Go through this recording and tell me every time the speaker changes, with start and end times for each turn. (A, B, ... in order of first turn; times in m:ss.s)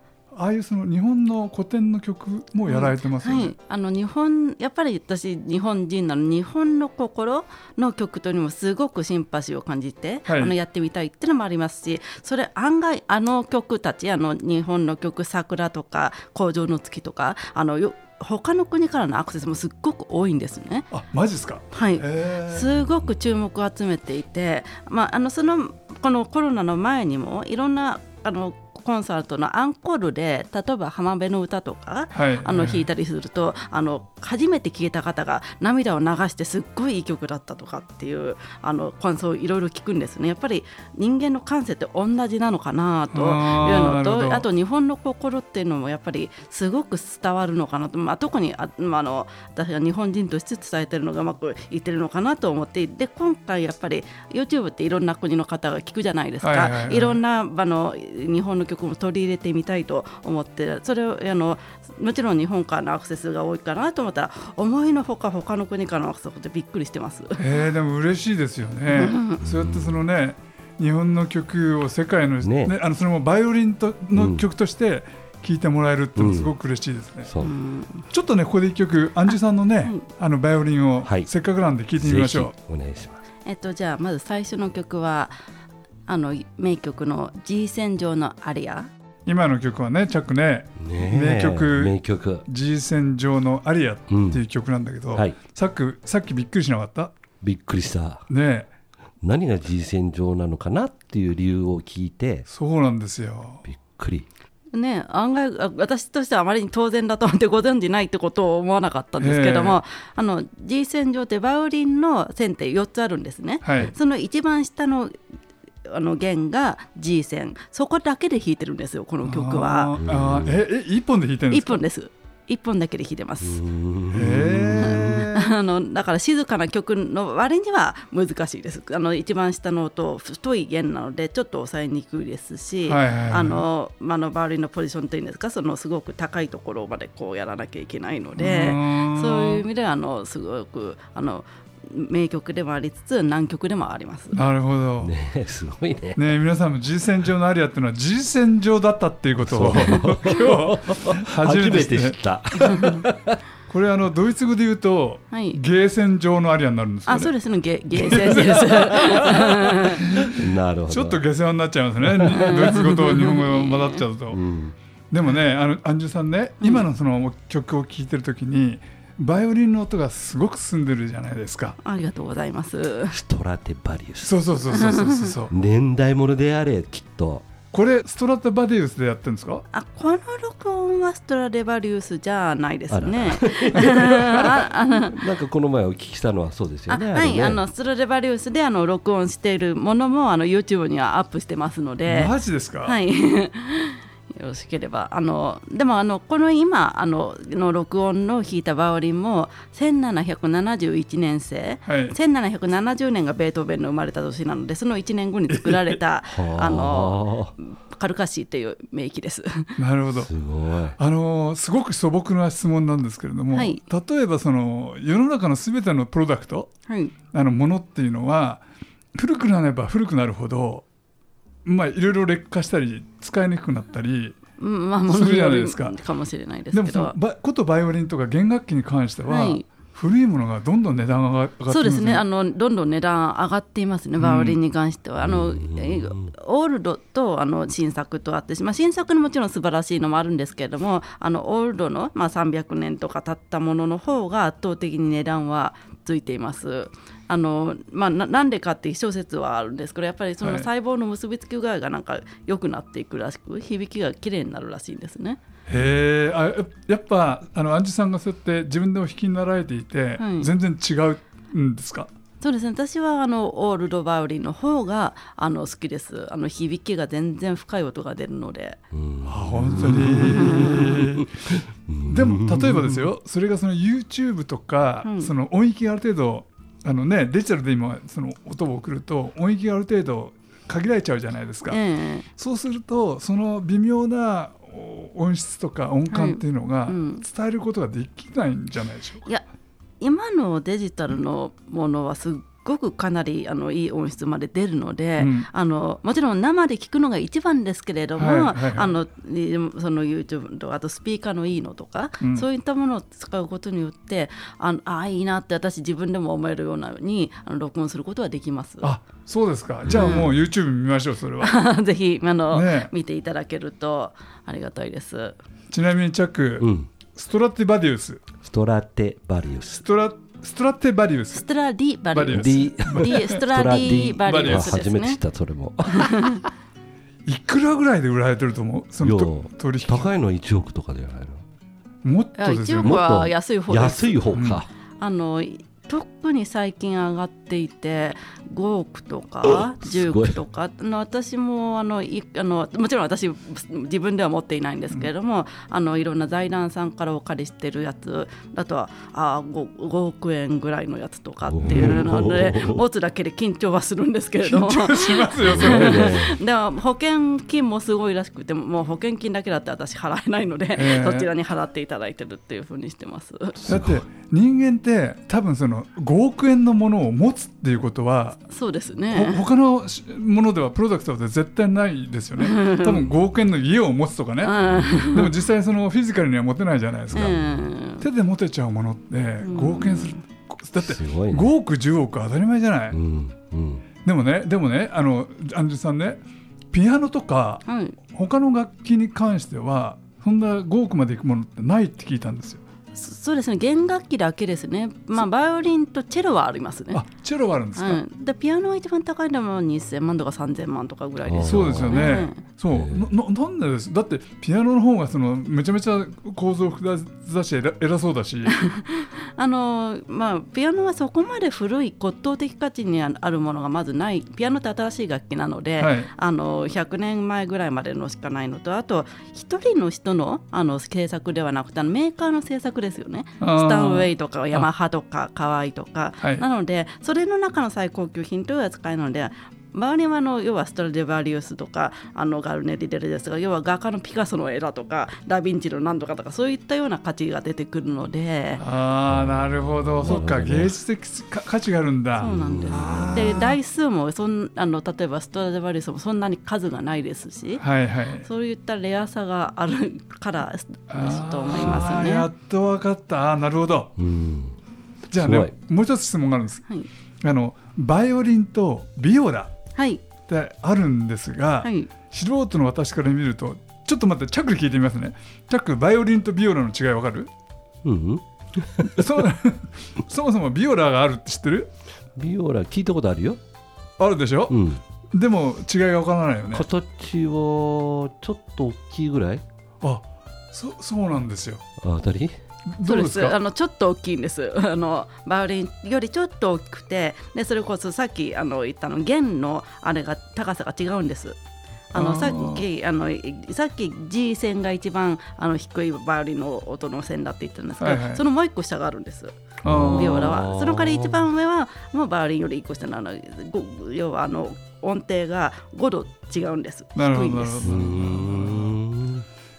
0:00.3-0:03.5 A
0:02.6-0:20.9 B
0:10.3-0:10.5 A
0:20.9-0:22.7 A
0:21.7-1:07.4 B
0:32.1-0:32.9 A
0:43.1-0:44.4 A
0:56.4-0:57.2 A
1:07.4-1:17.3 A
1:08.9-1:09.4 B
1:09.4-1:10.0 C
1:12.4-1:12.8 C
1:14.2-1:14.4 C
1:16.2-1:16.5 C
1:17.2-1:17.5 C
1:17.4-1:18.0 B
1:18.1-1:22.5 A
1:22.0-1:23.2 C
1:23.4-1:25.4 B
1:26.1-1:28.9 B
1:29.2-1:37.1 A
1:30.8-1:32.4 C
1:34.1-1:34.4 C
1:37.4-1:38.2 C
1:38.3-1:38.7 A
1:39.2-1:42.5 C
1:42.5-1:43.6 A
1:43.6-1:44.2 C
1:44.7-1:55.1 B
1:49.2-1:49.8 A
1:53.6-1:53.9 A
1:55.8-1:59.9 B
1:59.2-2:01.8 A
2:00.0-2:00.6 C
2:01.5-2:03.6 B
2:03.4-2:05.3 C
2:04.1-2:05.5 A
2:04.8-2:24.4 B
2:12.8-2:13.6 A
2:18.4-2:19.6 A
2:24.3-2:25.1 A
2:25.0-2:26.2 C
2:26.2-2:32.9 A
2:29.4-2:33.4 C
2:32.6-2:33.0 B
2:33.7-2:37.3 A
2:35.3-2:35.6 B
2:37.1-2:40.1 B
2:37.9-2:44.4 A
2:40.0-2:41.2 C
2:42.0-2:42.6 C
2:42.4-2:44.0 B
2:44.3-2:44.7 C
2:45.1-2:51.8 A
2:51.8-2:53.2 B
2:53.1-2:54.3 C
2:54.2-2:55.5 A
2:54.7-2:55.3 B
2:55.5-2:57.4 C
2:57.7-2:59.6 A
2:59.7-3:05.2 B
3:02.9-3:07.6 C
3:03.8-3:04.5 A
3:06.9-3:12.3 B
3:12.1-3:13.0 A
3:12.8-3:29.8 B
3:21.8-3:22.1 A
3:25.5-3:26.0 A
3:26.3-3:27.5 C
3:29.8-3:30.3 A
3:30.2-3:31.0 C
3:31.0-3:36.7 A
3:33.5-3:33.8 B
3:36.9-3:37.1 B
3:37.3-3:38.6 A
3:39.2-3:40.8 A
3:41.6-3:44.4 A
3:44.6-3:47.1 B
3:45.1-3:46.0 A
3:46.7-3:52.2 A
3:49.3-3:49.7 B
3:51.7-4:15.4 B
3:54.2-3:54.6 A
3:55.2-3:56.3 C
4:10.4-4:10.7 A
4:15.7-4:22.1 A
4:20.2-4:20.5 B
4:22.4-4:28.8 B
4:28.9-4:33.1 C
4:29.2-4:31.3 A
4:32.1-4:41.8 A
4:35.0-4:35.3 B
4:41.7-4:42.3 B
4:42.4-4:49.3 A
4:46.1-4:47.2 B
4:50.0-5:08.9 B
4:55.2-4:55.5 A
4:58.2-4:59.0 A
5:02.2-5:02.5 A
5:08.8-5:11.6 A
5:09.9-5:10.3 C
5:09.9-5:10.3 B
5:11.4-5:15.4 B
5:12.5-5:12.9 A
5:15.7-5:18.2 A
5:16.6-5:16.9 C
5:18.4-5:19.8 C
5:19.8-5:21.4 A
5:21.3-5:25.2 B
5:22.1-5:23.4 A
5:22.3-5:26.4 C
5:24.2-5:24.8 A
5:25.9-5:26.4 B
5:27.2-5:30.1 A
5:29.0-5:31.4 C
5:32.0-5:33.0 A
5:32.4-5:34.4 B
5:32.8-5:34.7 C
5:34.3-5:34.6 A
5:35.0-6:03.6 B
5:39.4-5:40.4 C
5:51.5-5:52.8 C
5:51.7-5:52.0 A
5:54.4-5:56.2 A
5:55.4-5:56.4 C
6:00.8-6:01.3 A
6:03.6-6:04.0 C
6:03.7-6:08.4 A
6:08.5-6:09.4 B
6:09.1-6:17.4 A
6:12.4-6:13.1 B
6:14.4-6:15.3 B
6:14.7-6:15.0 C
6:17.1-6:18.0 B
6:18.0-6:23.0 A
6:19.4-6:20.2 B
6:20.8-6:21.5 C
6:22.9-6:23.8 C
6:24.0-6:32.6 A
6:27.6-6:28.0 B
6:32.9-6:37.0 B
6:36.9-6:38.0 A
6:37.8-6:42.4 B
6:41.2-6:42.1 C
6:41.4-6:48.6 A
6:42.7-6:43.1 C
6:48.5-7:18.6 B
6:55.8-6:56.1 A
7:03.4-7:04.7 A
7:18.6-7:23.6 A
7:19.1-7:20.7 C
7:22.2-7:27.6 B
7:22.2-7:23.2 C
7:27.6-7:28.2 A
7:28.2-7:32.3 B
7:30.9-7:33.9 A
7:31.6-7:31.9 C
7:34.0-7:34.6 C
7:35.1-7:36.6 A
7:35.2-7:35.5 C
7:37.2-7:39.5 A
7:39.8-7:40.0 B
7:40.2-7:47.3 A
7:41.6-7:41.9 B
7:47.8-7:49.0 C
7:48.8-7:51.7 A
7:52.2-7:53.4 C
7:54.0-7:54.6 A
7:54.5-7:54.8 C
7:55.1-7:56.6 A
7:56.5-7:59.4 C
7:59.8-8:01.6 A
8:01.8-8:02.3 C
8:02.7-8:03.4 A
8:02.8-8:11.4 B
8:11.9-8:27.8 B
8:11.9-8:12.6 A
8:17.8-8:18.2 A
8:19.6-8:20.3 A
8:19.6-8:21.2 C
8:27.0-8:28.8 A
8:27.6-8:29.2 C